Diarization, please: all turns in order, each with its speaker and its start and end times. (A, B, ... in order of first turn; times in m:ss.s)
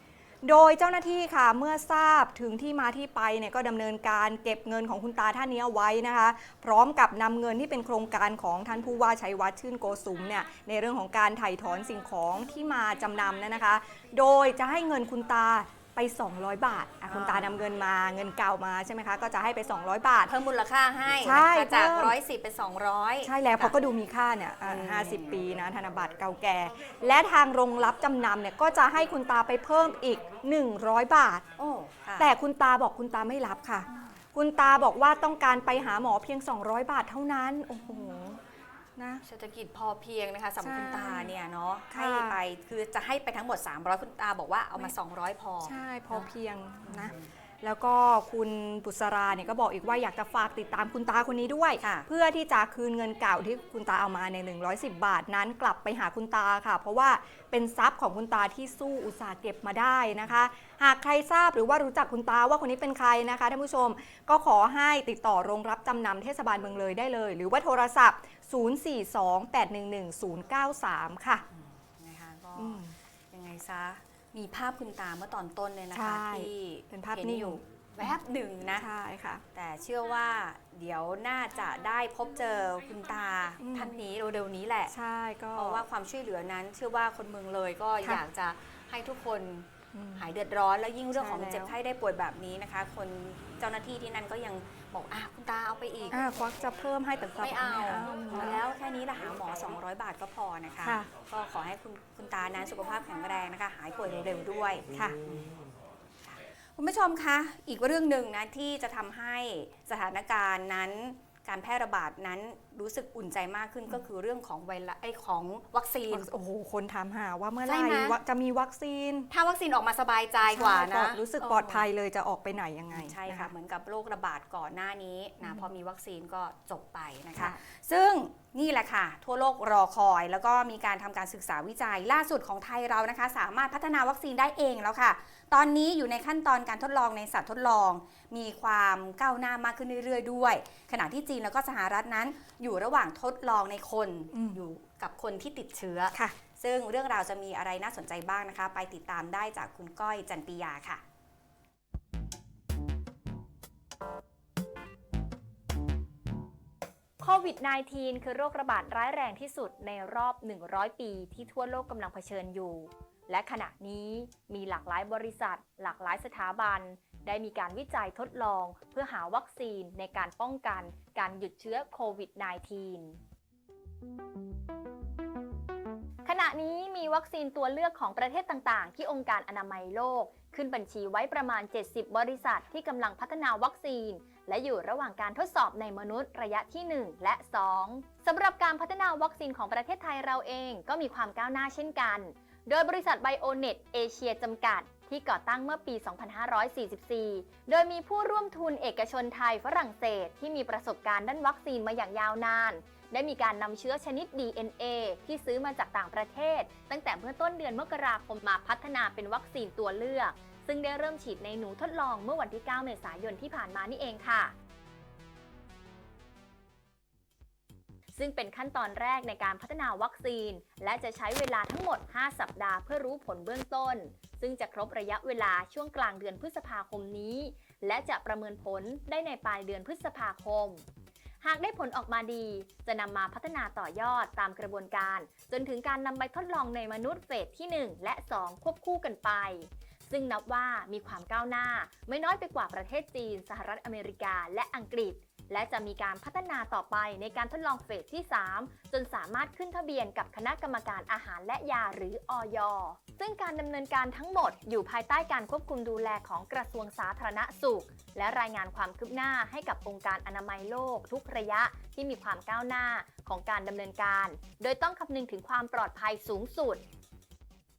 0:00.4-0:20.3 A
0:17.1-0:17.5 B
0:20.3-0:23.8 B
0:21.2-0:22.2 A
0:23.2-0:31.5 A
0:24.7-0:25.4 B
0:31.6-0:32.3 B
0:32.2-0:38.4 A
0:39.0-0:39.2 A
0:39.2-0:46.3 B
0:40.6-0:41.4 A
0:41.9-0:42.4 A
0:45.6-1:11.4 A
0:46.9-0:47.2 B
0:51.8-0:52.1 B
1:11.5-1:18.9 B
1:12.6-1:13.0 A
1:15.9-1:18.1 A
1:18.8-1:19.4 A
1:19.5-1:24.9 B
1:23.6-1:24.0 A
1:24.9-1:25.8 A
1:25.6-1:36.2 B
1:29.9-1:30.3 A
1:31.2-1:31.8 A
1:36.1-1:38.6 A
1:37.4-1:45.5 B
1:40.8-1:41.1 A
1:44.9-1:45.2 A
1:46.8-1:56.3 B
1:56.1-1:59.3 A
1:57.6-1:58.2 B
1:59.3-2:01.9 B
2:00.5-2:03.5 A
2:02.9-2:31.0 B
2:24.3-2:24.6 A
2:37.2-2:53.2 C
2:56.2-3:34.5 C
3:38.2-3:50.8 C
3:51.4-4:26.8 C